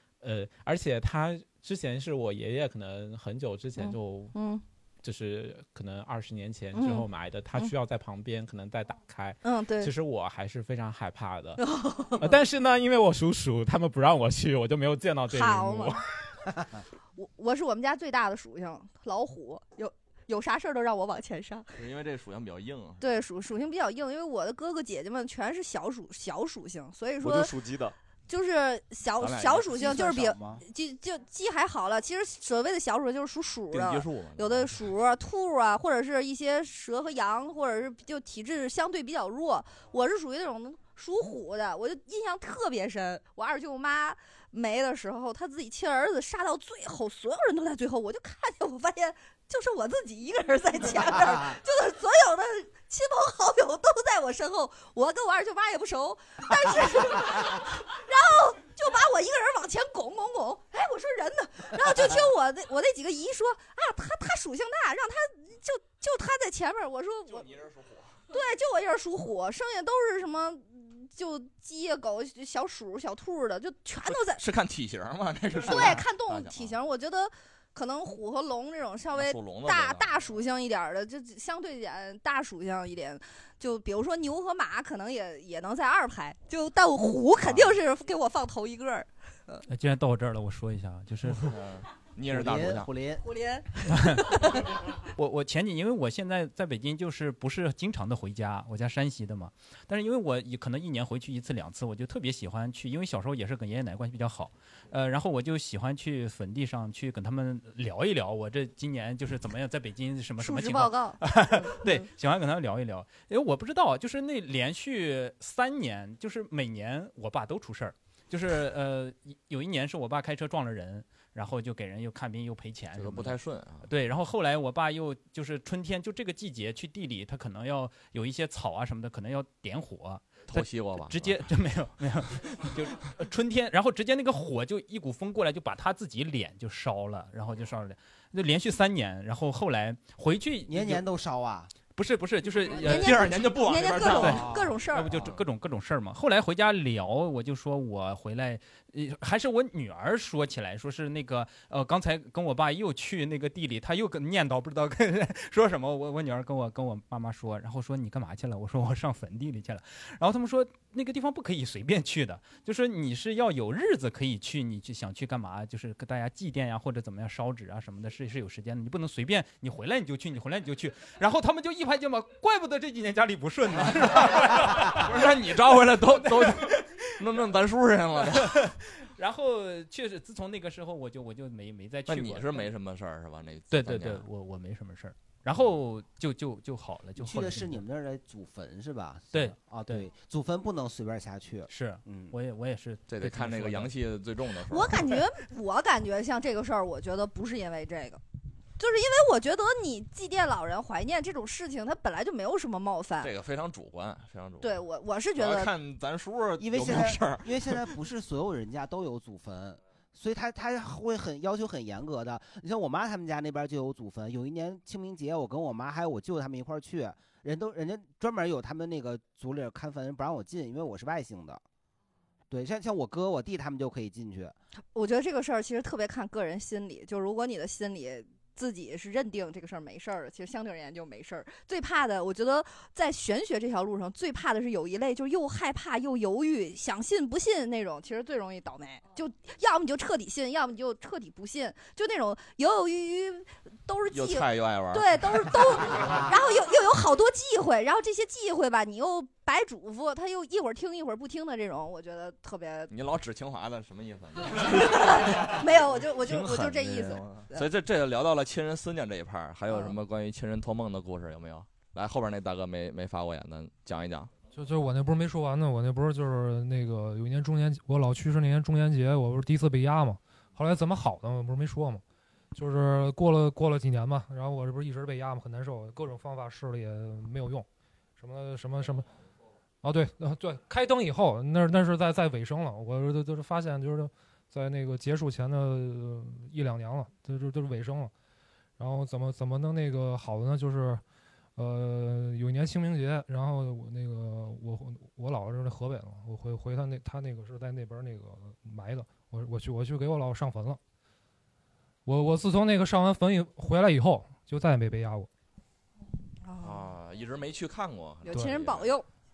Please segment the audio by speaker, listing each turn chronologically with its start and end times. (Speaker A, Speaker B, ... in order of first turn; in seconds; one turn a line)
Speaker A: 0.2-4.3
Speaker B: 3.8-4.6
Speaker A: 5.0-11.6
Speaker B: 6.7-7.7
Speaker B: 9.4-9.9
Speaker B: 11.6-12.3
Speaker A: 12.2-16.0
Speaker B: 15.3-16.0
Speaker B: 17.1-21.7
Speaker C: 21.7-23.2
Speaker B: 23.0-27.5
Speaker D: 27.2-27.9
Speaker B: 28.3-67.5
Speaker C: 29.2-30.0
Speaker E: 29.7-30.6
Speaker C: 33.7-34.8
Speaker C: 67.3-68.2
Speaker B: 68.3-74.4
Speaker C: 74.1-76.8
Speaker B: 75.5-89.6
Speaker C: 79.1-80.1
Speaker F: 89.7-91.5
Speaker C: 91.4-92.9
Speaker E: 92.3-93.2
Speaker B: 93.2-94.6
Speaker F: 95.2-141.0
Speaker B: 110.4-112.0
Speaker C: 123.0-123.9
Speaker C: 130.5-131.4
Speaker E: 140.7-141.7
Speaker F: 141.9-143.3
Speaker C: 142.7-144.5
Speaker B: 142.8-145.1
Speaker F: 144.1-175.1
Speaker E: 144.2-144.7
Speaker C: 174.0-178.7
Speaker F: 179.0-182.7
Speaker C: 182.1-184.2
Speaker F: 183.7-187.8
Speaker E: 187.2-192.3
Speaker F: 189.3-190.1
Speaker F: 191.7-193.9
Speaker C: 193.1-195.2
Speaker B: 194.7-198.2
Speaker B: 198.8-203.3
Speaker C: 203.2-207.8
Speaker B: 204.6-205.7
Speaker E: 206.6-221.6
Speaker E: 222.5-224.5
Speaker B: 224.9-252.9
Speaker C: 244.1-246.3
Speaker C: 252.9-255.6
Speaker B: 254.7-257.6
Speaker D: 255.2-255.6
Speaker D: 256.1-257.4
Speaker C: 257.5-264.3
Speaker B: 259.7-259.9
Speaker G: 264.5-272.0
Speaker G: 272.5-277.7
Speaker G: 278.2-279.1
Speaker G: 279.8-288.1
Speaker G: 288.8-291.0
Speaker G: 291.6-300.8
Speaker G: 302.1-305.3
Speaker B: 306.4-306.9
Speaker C: 306.6-308.9
Speaker B: 308.2-309.1